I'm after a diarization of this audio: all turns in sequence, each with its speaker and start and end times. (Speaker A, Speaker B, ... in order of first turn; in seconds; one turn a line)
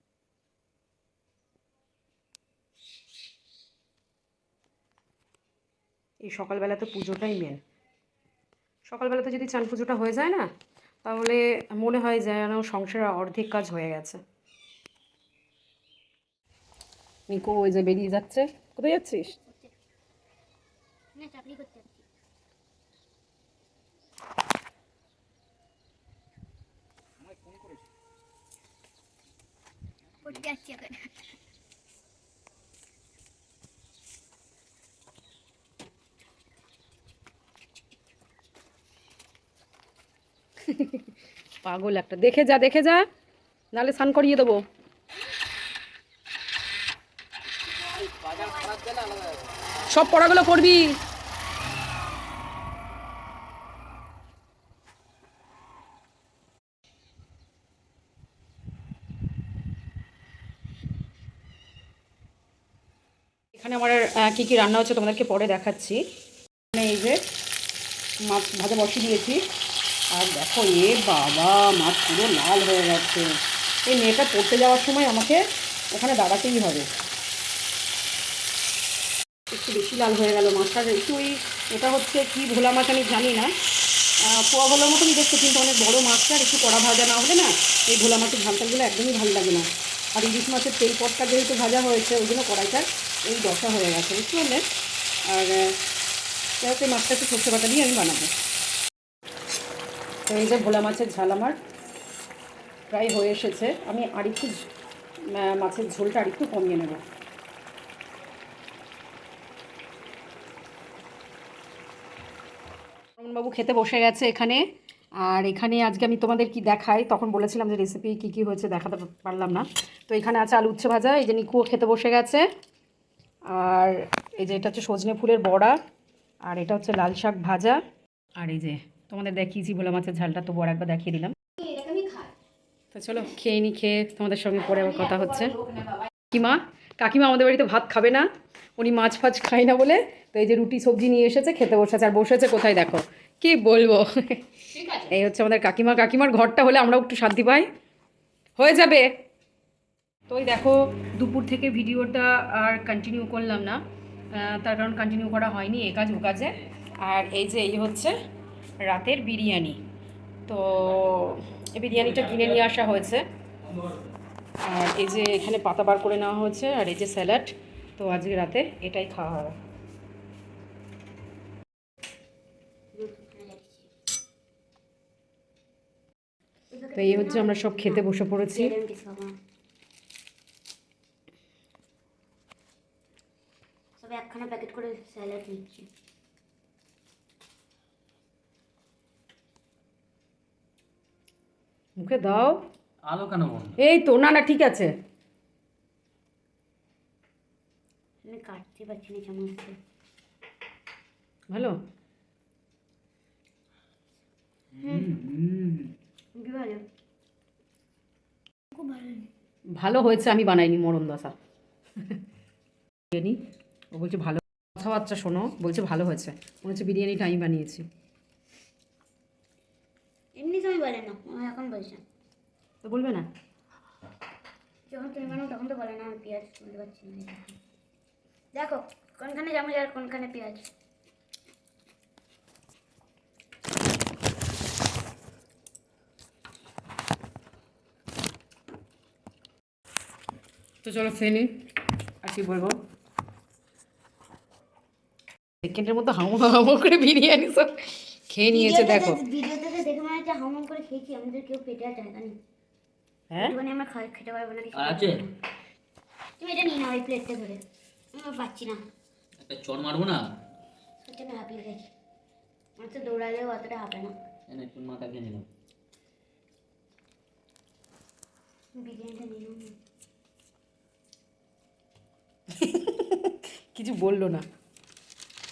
Speaker A: 6.2-7.6
Speaker A: 8.9-10.5
Speaker A: 11.0-14.2
Speaker A: 17.3-19.4
Speaker B: 21.1-22.0
Speaker B: 30.2-31.1
Speaker A: 40.7-41.1
Speaker A: 41.6-43.0
Speaker A: 43.7-44.6
Speaker B: 47.9-49.6
Speaker A: 49.9-51.0
Speaker A: 63.5-66.0
Speaker A: 66.7-67.2
Speaker A: 68.2-69.4
Speaker A: 70.1-73.3
Speaker A: 73.9-76.9
Speaker A: 79.5-83.5
Speaker A: 84.2-94.6
Speaker A: 95.3-95.8
Speaker A: 96.6-98.3
Speaker A: 100.3-101.6
Speaker A: 102.9-104.7
Speaker A: 105.3-107.0
Speaker A: 113.2-114.7
Speaker A: 115.2-122.5
Speaker A: 123.5-125.8
Speaker A: 126.5-127.8
Speaker A: 128.3-132.2
Speaker A: 132.9-135.6
Speaker A: 136.3-147.7
Speaker A: 148.6-149.1
Speaker A: 150.3-153.8
Speaker A: 154.3-158.1
Speaker A: 158.8-159.8
Speaker A: 160.5-163.2
Speaker A: 164.6-169.6
Speaker B: 172.9-173.9
Speaker B: 176.7-179.3
Speaker A: 176.9-178.7
Speaker B: 184.0-185.9
Speaker A: 192.0-192.6
Speaker C: 193.0-193.8
Speaker A: 193.8-194.9
Speaker B: 198.2-199.8
Speaker A: 201.5-201.8
Speaker C: 204.8-205.9
Speaker B: 204.8-205.1
Speaker B: 206.3-206.8
Speaker B: 208.7-209.3
Speaker A: 209.8-211.3
Speaker A: 213.1-213.4
Speaker A: 213.9-217.8
Speaker B: 220.3-222.0
Speaker A: 222.8-223.3
Speaker B: 224.9-227.5
Speaker B: 228.5-230.7
Speaker A: 240.8-241.6
Speaker A: 242.2-242.8
Speaker A: 245.6-249.2
Speaker B: 248.5-252.4
Speaker A: 253.3-253.6
Speaker B: 253.4-255.3
Speaker C: 254.7-255.2
Speaker B: 256.4-257.6
Speaker B: 258.1-258.8
Speaker C: 259.4-260.2
Speaker B: 261.0-261.9
Speaker B: 262.8-264.1
Speaker C: 264.5-265.5
Speaker B: 268.8-269.8
Speaker A: 272.6-274.4